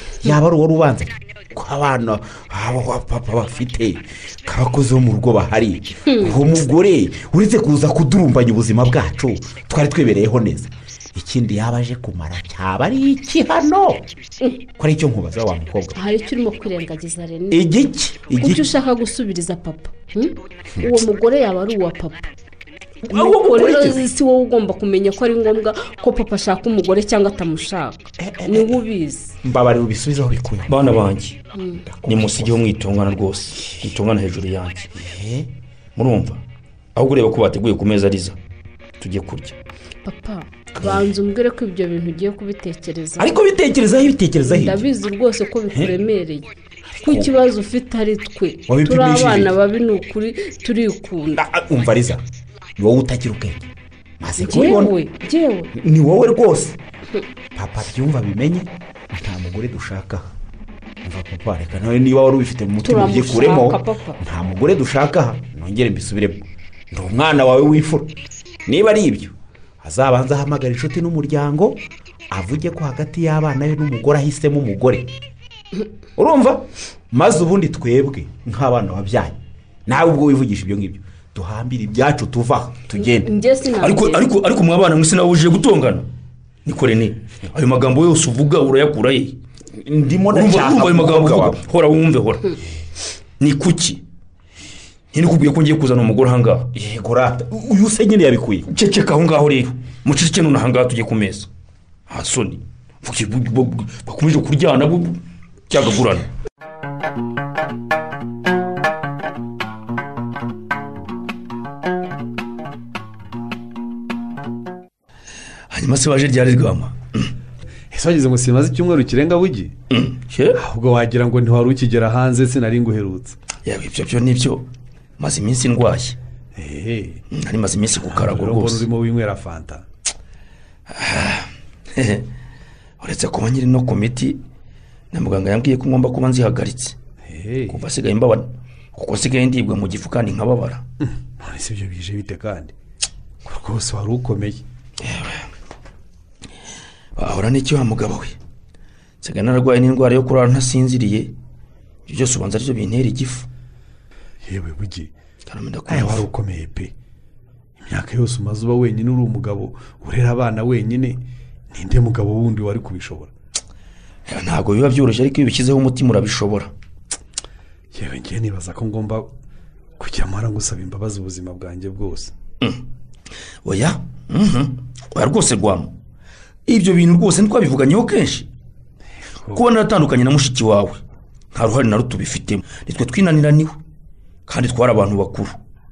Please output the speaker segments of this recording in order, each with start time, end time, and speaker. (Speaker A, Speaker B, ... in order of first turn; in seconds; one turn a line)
Speaker A: 0.2-14.1
Speaker A: 14.8-16.0
Speaker B: 15.9-17.6
Speaker A: 17.5-18.7
Speaker B: 18.4-22.3
Speaker B: 23.1-29.3
Speaker A: 23.1-24.0
Speaker C: 23.1-23.9
Speaker A: 28.2-28.8
Speaker A: 29.4-31.0
Speaker C: 30.7-31.5
Speaker B: 31.5-31.9
Speaker A: 31.9-32.6
Speaker C: 32.0-34.9
Speaker A: 35.0-35.5
Speaker C: 36.0-36.4
Speaker C: 36.9-38.4
Speaker C: 39.0-39.6
Speaker B: 40.0-43.4
Speaker A: 40.8-41.1
Speaker A: 43.2-44.9
Speaker B: 44.4-46.5
Speaker A: 46.9-47.3
Speaker B: 47.0-51.4
Speaker A: 48.7-49.5
Speaker A: 51.4-52.2
Speaker A: 52.8-55.0
Speaker B: 54.4-55.7
Speaker A: 55.7-56.8
Speaker A: 57.5-60.3
Speaker A: 61.0-68.1
Speaker B: 62.8-64.2
Speaker A: 68.7-75.1
Speaker A: 76.2-83.3
Speaker B: 83.0-84.3
Speaker C: 83.8-86.1
Speaker C: 86.6-89.4
Speaker A: 89.8-91.6
Speaker C: 90.3-92.5
Speaker C: 93.4-94.0
Speaker C: 95.1-96.7
Speaker A: 96.7-98.7
Speaker C: 98.7-101.5
Speaker C: 102.1-106.3
Speaker C: 115.7-117.3
Speaker D: 117.9-119.7
Speaker C: 119.9-120.6
Speaker D: 120.5-123.4
Speaker C: 123.6-124.7
Speaker C: 125.2-126.2
Speaker D: 126.5-127.2
Speaker C: 127.3-128.9
Speaker D: 127.9-129.8
Speaker C: 130.9-132.3
Speaker C: 133.0-134.4
Speaker C: 135.1-137.0
Speaker D: 137.2-137.8
Speaker C: 137.7-140.8
Speaker D: 141.0-142.7
Speaker D: 143.4-144.6
Speaker C: 145.0-145.5
Speaker C: 147.2-148.4
Speaker C: 149.2-151.3
Speaker C: 152.1-153.5
Speaker D: 154.4-155.1
Speaker C: 155.5-156.2
Speaker D: 155.9-156.9
Speaker D: 157.8-161.2
Speaker D: 161.7-163.3
Speaker C: 164.2-166.7
Speaker D: 167.9-169.3
Speaker D: 170.0-172.3
Speaker C: 173.6-175.9
Speaker C: 176.7-178.5
Speaker C: 179.5-181.0
Speaker C: 181.5-183.8
Speaker C: 184.5-185.6